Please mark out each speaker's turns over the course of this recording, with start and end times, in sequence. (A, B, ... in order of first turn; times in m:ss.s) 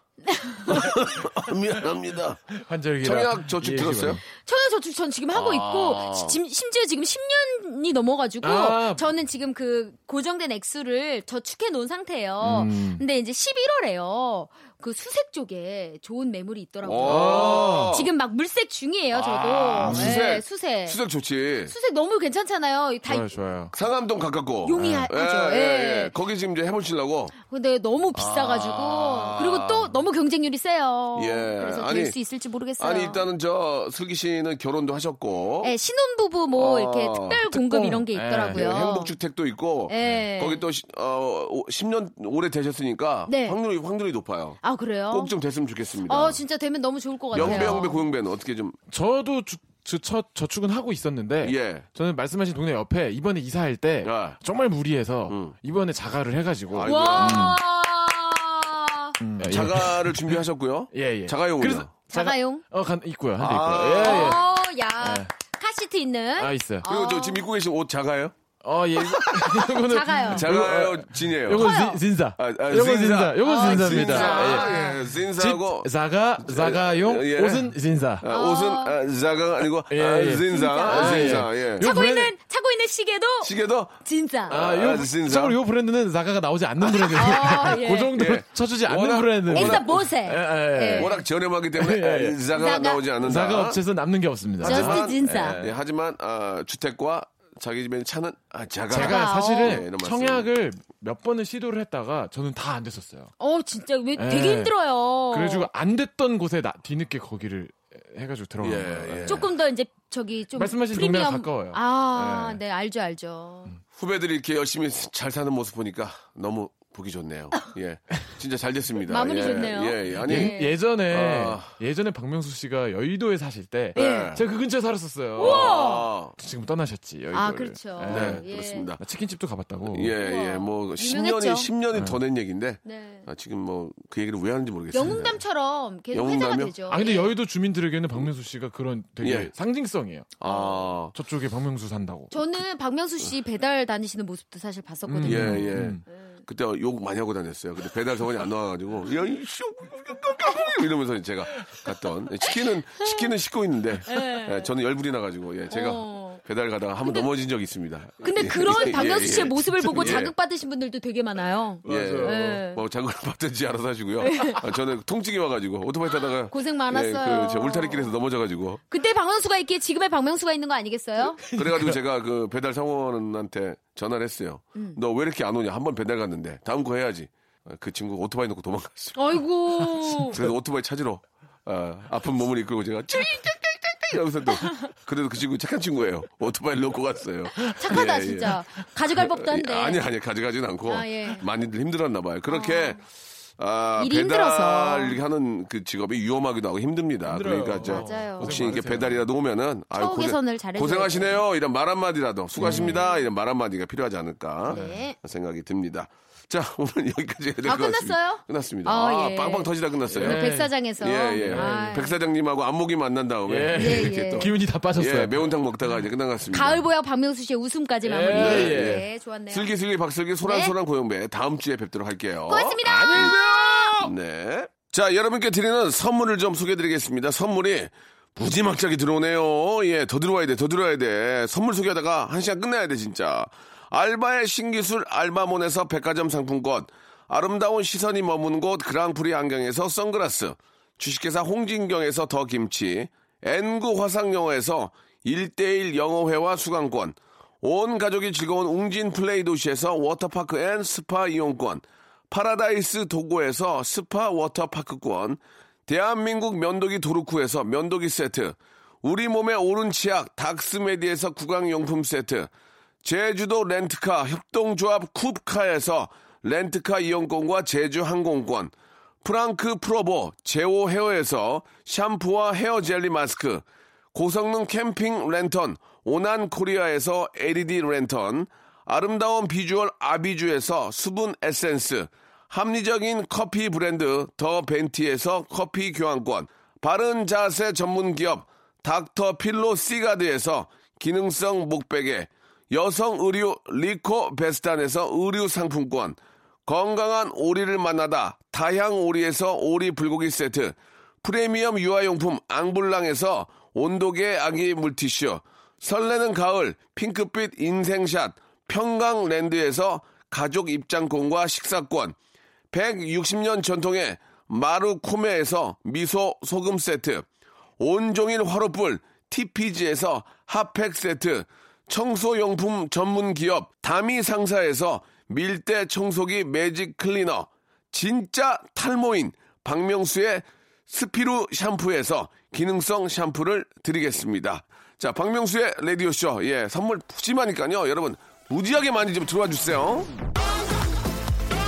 0:00.3-0:00.9 A
0:00.7-0:04.2 B
0:02.5-0:04.2 C
0:04.4-0:21.0 A
0:05.3-0:06.4 B
0:08.4-0:09.1 C
0:12.4-0:13.0 C
0:16.8-0:18.1 B
0:17.0-0:18.0 C
0:19.1-0:21.7 B
0:19.8-0:20.2 C
0:21.7-0:23.3 A
0:23.1-0:23.7 C
0:23.7-0:27.3 B
0:24.6-0:26.1 A
0:24.8-0:25.1 C
0:27.4-0:33.3 A
0:28.2-0:29.9 B
0:31.2-0:32.2 B
0:32.8-0:35.7 B
0:35.6-0:39.1 A
0:36.5-0:37.4 B
0:37.5-0:38.8 C
0:38.5-0:46.4 B
0:39.9-0:40.6 A
0:43.3-0:43.6 A
0:44.6-0:45.3 A
0:46.1-0:48.1 A
0:47.3-0:48.8 B
0:47.4-0:47.8 C
0:48.9-0:57.6 C
0:51.4-0:51.9 B
0:54.0-0:54.4 B
0:55.3-0:55.6 B
0:56.7-0:57.6 B
0:56.9-0:59.2 A
0:59.2-1:04.5 C
0:59.4-1:01.9 B
1:02.1-1:02.6 A
1:03.4-1:04.4 B
1:04.0-1:07.5 A
1:05.0-1:05.3 C
1:06.4-1:06.8 C
1:06.8-1:08.4 B
1:08.6-1:18.3 C
1:09.0-1:09.7 B
1:09.8-1:10.5 A
1:10.3-1:11.7 B
1:11.5-1:12.0 A
1:12.4-1:21.9 B
1:13.4-1:15.0 A
1:18.3-1:19.0 A
1:19.9-1:22.3 C
1:20.5-1:24.6 A
1:23.4-1:24.0 B
1:24.5-1:25.6 B
1:24.5-1:31.2 C
1:27.0-1:28.2 A
1:27.3-1:29.9 B
1:29.5-1:31.1 A
1:30.9-1:33.8 B
1:31.7-1:32.4 C
1:32.5-1:33.1 A
1:33.2-1:35.8 C
1:34.6-1:40.5 B
1:34.6-1:35.6 A
1:38.9-1:39.8 A
1:38.9-1:43.3 C
1:43.4-1:45.7 A
1:44.2-1:44.8 C
1:45.3-1:49.5 C
1:48.6-1:49.5 B
1:49.3-1:53.7 A
1:50.6-1:52.6 C
1:54.0-2:01.7 B
1:59.1-2:00.8 A
2:00.2-2:05.8 C
2:04.0-2:04.4 B
2:04.0-2:04.3 A
2:05.4-2:06.1 A
2:05.4-2:06.3 B
2:06.4-2:08.4 C
2:07.3-2:08.9 A
2:08.1-2:09.0 B
2:09.0-2:10.1 C
2:09.9-2:15.4 B
2:10.2-2:11.7 A
2:11.9-2:12.2 C
2:12.8-2:13.3 A
2:14.9-2:17.3 A
2:16.1-2:16.8 B
2:16.9-2:20.4 C
2:19.2-2:19.5 B
2:20.4-2:21.2 B
2:20.4-2:20.9 A
2:21.1-2:22.3 C
2:22.3-2:26.4 A
2:25.1-2:26.0 C
2:25.2-2:40.3 B
2:34.1-2:34.7 A
2:35.7-2:36.4 A
2:37.0-2:37.3 A
2:38.2-2:42.8 A
2:39.8-2:40.2 C
2:41.8-2:42.6 C
2:41.9-2:48.8 B
2:44.2-2:44.6 A
2:46.5-2:48.2 A
2:48.9-2:51.4 A
2:51.4-2:52.0 C
2:51.5-2:59.4 B
2:59.2-3:00.4 A
3:00.2-3:08.6 B
3:07.7-3:10.0 A
3:09.2-3:13.0 B
3:10.9-3:11.5 A
3:12.5-3:13.0 A
3:13.6-3:30.4 B
3:14.0-3:15.2 A
3:17.2-3:19.2 C
3:17.9-3:18.5 A
3:19.9-3:21.4 A
3:22.6-3:23.0 C
3:22.6-3:23.2 A
3:24.7-3:25.2 A
3:24.7-3:25.0 C
3:27.6-3:32.1 A
3:30.1-3:30.8 C
3:31.0-3:36.8 B
3:31.4-3:32.0 C
3:33.5-3:35.5 C
3:33.8-3:34.5 A
3:36.5-3:39.7 A
3:38.0-3:39.0 C
3:38.3-3:43.3 B
3:40.4-3:40.7 A
3:42.5-3:44.0 A
3:42.8-3:44.1 C
3:44.0-4:22.5 B
4:23.0-5:12.2 B
5:12.7-5:17.3 B
5:17.8-5:40.1 B